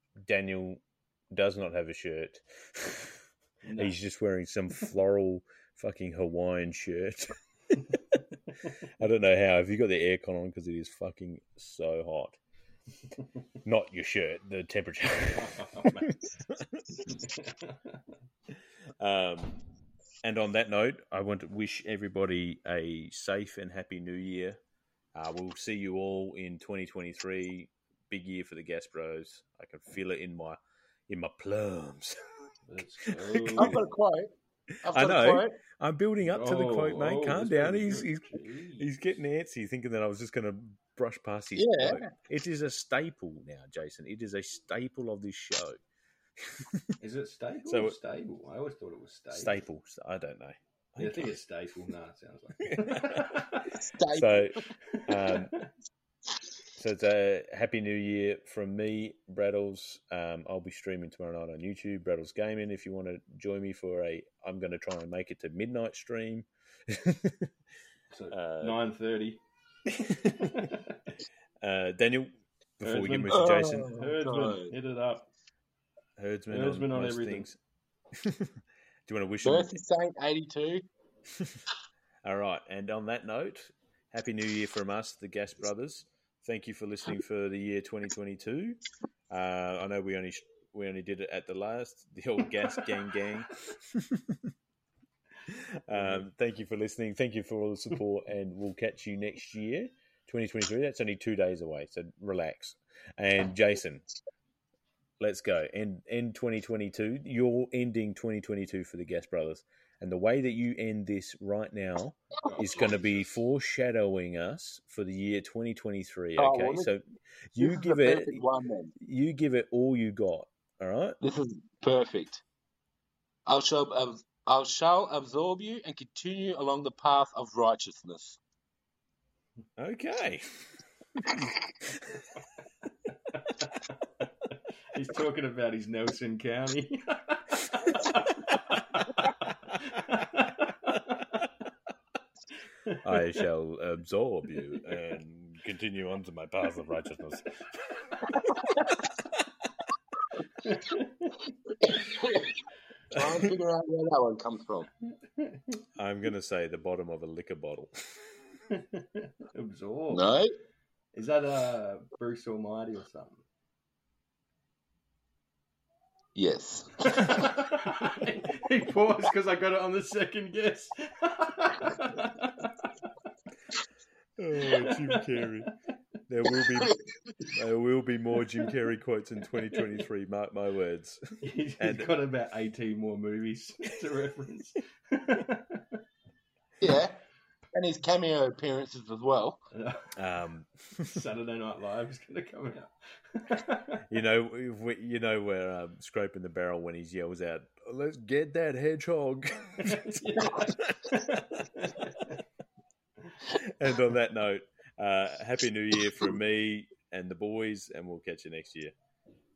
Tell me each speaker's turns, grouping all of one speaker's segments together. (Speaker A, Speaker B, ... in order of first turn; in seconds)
Speaker A: 0.3-0.8, 1.3-3.2, 3.8-8.2, 9.0-12.4, 13.6-16.8, 19.0-19.6, 20.2-24.6, 25.1-32.2, 33.0-33.8, 34.9-45.8, 46.4-46.9, 47.6-48.0, 49.3-51.4, 52.7-53.4, 54.1-55.5, 56.8-67.5, 68.3-68.8, 70.0-70.7, 71.6-73.9, 76.2-77.6, 78.2-79.7, 81.3-81.6, 82.2-94.5, 95.5-104.0, 105.2-117.0, 117.5-118.4, 119.0-121.2, 129.8-132.3, 143.0-148.3, 153.2-153.4, 156.0-158.4, 174.4-175.7, 176.3-181.2, 181.8-182.1, 190.2-191.2, 194.1-201.8, 203.5-208.9
Speaker B: 3.6-4.0, 15.3-16.1, 17.0-18.1, 32.6-33.9, 36.2-38.9, 47.0-49.6, 51.0-53.7, 54.9-55.7, 68.1-69.4, 70.2-71.0, 72.8-75.2, 76.5-77.5, 95.9-96.3, 112.5-113.4, 134.9-137.6, 139.8-141.3, 150.6-151.5, 155.1-155.8, 158.7-160.3, 161.1-163.4, 167.2-172.7, 181.4-186.0, 189.7-190.1, 191.1-194.0, 199.8-202.4
Speaker C: 33.6-34.3, 34.8-35.6, 41.5-42.1, 53.7-54.6, 73.3-74.7, 79.4-80.8, 116.4-116.9, 117.5-118.9, 121.2-122.4, 123.5-128.4, 151.8-152.5, 153.1-154.9, 160.1-160.5, 166.3-167.4, 186.8-187.2, 187.7-189.6